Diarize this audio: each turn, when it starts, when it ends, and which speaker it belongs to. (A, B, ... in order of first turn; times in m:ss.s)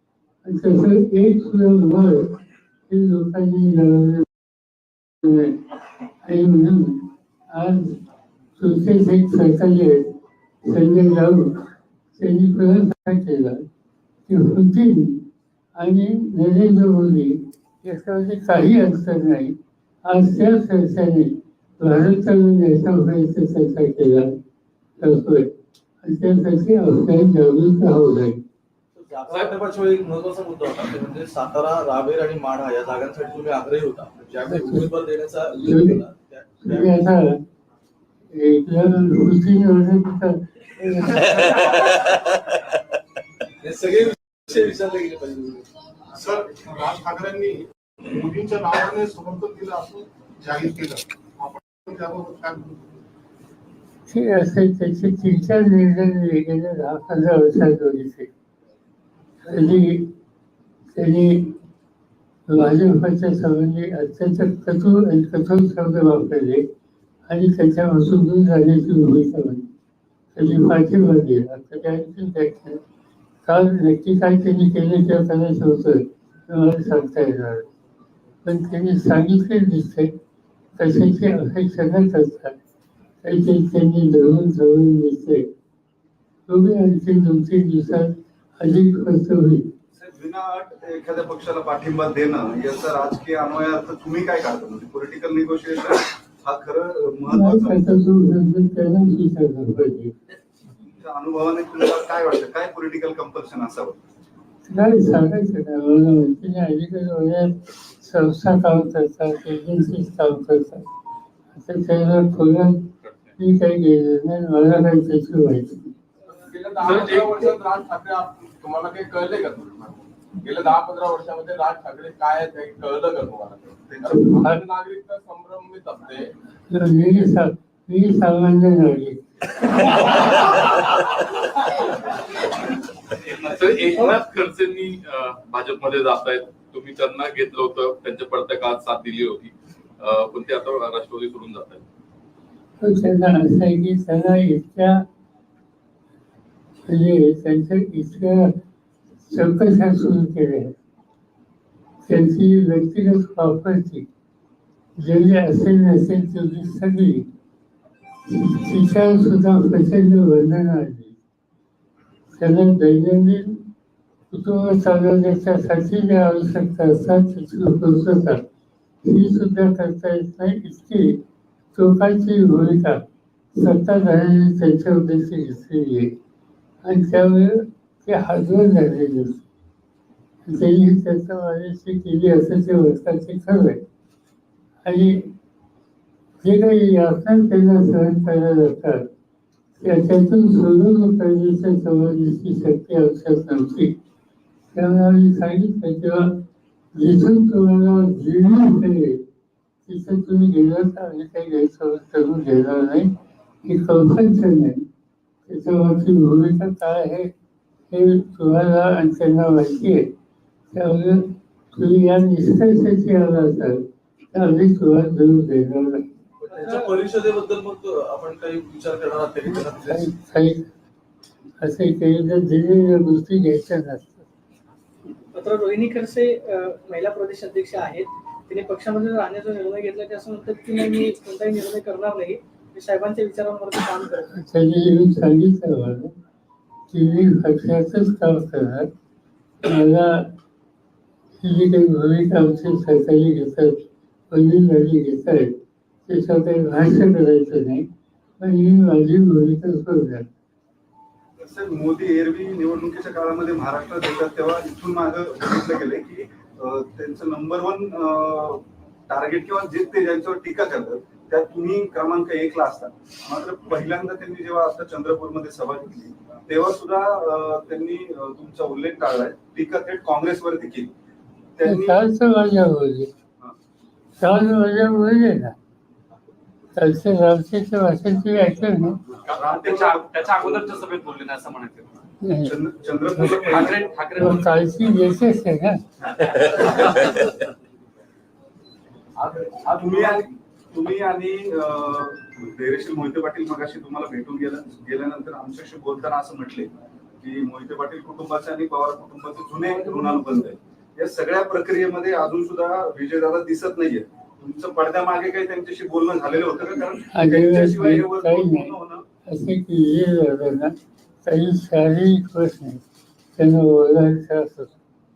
0:00.4-0:02.4 A
0:02.9-0:04.3 A
0:05.2-0:05.6 A
0:06.2-0:08.0 A
0:08.6-0:10.0 A
0:10.6-0:11.6 A
0:12.2-0:13.6 A
0:14.3-0:15.2 A
0:15.8-0:19.6 A
0:20.1-0:24.3 A
0:25.0-0:25.5 A
0:26.0-0:28.4 A
0:29.0-0:37.0 B
0:29.3-0:29.6 C
0:34.5-0:34.9 A
0:35.5-0:36.0 A
0:36.6-0:37.4 A
0:38.3-0:41.4 A
0:41.3-0:41.9 B
0:43.6-0:45.6 B
0:46.2-0:52.8 D
0:54.1-0:58.3 A
0:59.5-1:00.1 A
1:01.0-1:01.5 A
1:02.5-1:06.7 A
1:07.3-1:09.7 A
1:10.4-1:12.8 A
1:13.4-1:17.7 A
1:18.4-1:20.1 A
1:20.8-1:22.6 A
1:23.2-1:25.5 A
1:26.5-1:29.7 A
1:29.9-1:37.8 E
1:37.3-1:40.2 A
1:41.0-1:44.0 E
1:44.7-1:50.8 A
1:51.6-1:52.9 A
1:53.0-1:53.4 C
1:53.4-1:55.9 A
1:56.3-2:06.3 F
1:56.8-1:57.5 C
2:03.9-2:04.4 E
2:04.1-2:04.6 A
2:06.7-2:09.2 A
2:13.2-2:21.8 C
2:22.8-2:25.0 A
2:26.9-2:28.5 A
2:29.3-2:30.8 A
2:32.1-2:34.1 A
2:35.0-2:37.3 A
2:38.3-2:41.2 A
2:42.4-2:43.6 A
2:44.3-2:48.4 A
2:49.0-2:51.2 A
2:51.7-2:53.0 A
2:53.5-2:56.2 A
2:56.8-2:59.4 A
3:00.5-3:03.8 A
3:04.8-3:05.3 A
3:06.4-3:09.1 A
3:09.8-3:14.0 A
3:14.7-3:16.4 A
3:17.0-3:19.2 A
3:19.9-3:23.1 A
3:23.6-3:24.8 A
3:25.5-3:27.3 A
3:27.9-3:30.1 A
3:30.7-3:36.1 A
3:36.4-3:40.1 B
3:36.5-3:37.0 G
3:39.8-3:40.7 A
3:41.6-3:44.3 A
3:45.3-3:54.4 G
3:54.3-3:56.1 A
3:56.9-3:58.9 A
3:59.6-4:00.3 A
4:01.4-4:05.5 A
4:06.1-4:07.9 A
4:08.4-4:10.3 A
4:11.4-4:30.9 E
4:31.6-4:32.0 E
4:31.6-4:33.1 A
4:34.2-4:35.6 A
4:36.8-4:39.0 A
4:39.3-4:40.8 E
4:39.7-4:41.8 H
4:42.2-4:42.6 A
4:42.4-4:44.0 E
4:43.2-4:45.8 A
4:43.5-4:44.4 H
4:46.1-4:46.8 E
4:49.2-4:50.2 B
4:49.6-5:09.0 E
5:07.1-5:08.7 A
5:09.3-5:12.8 A
5:13.4-5:14.8 A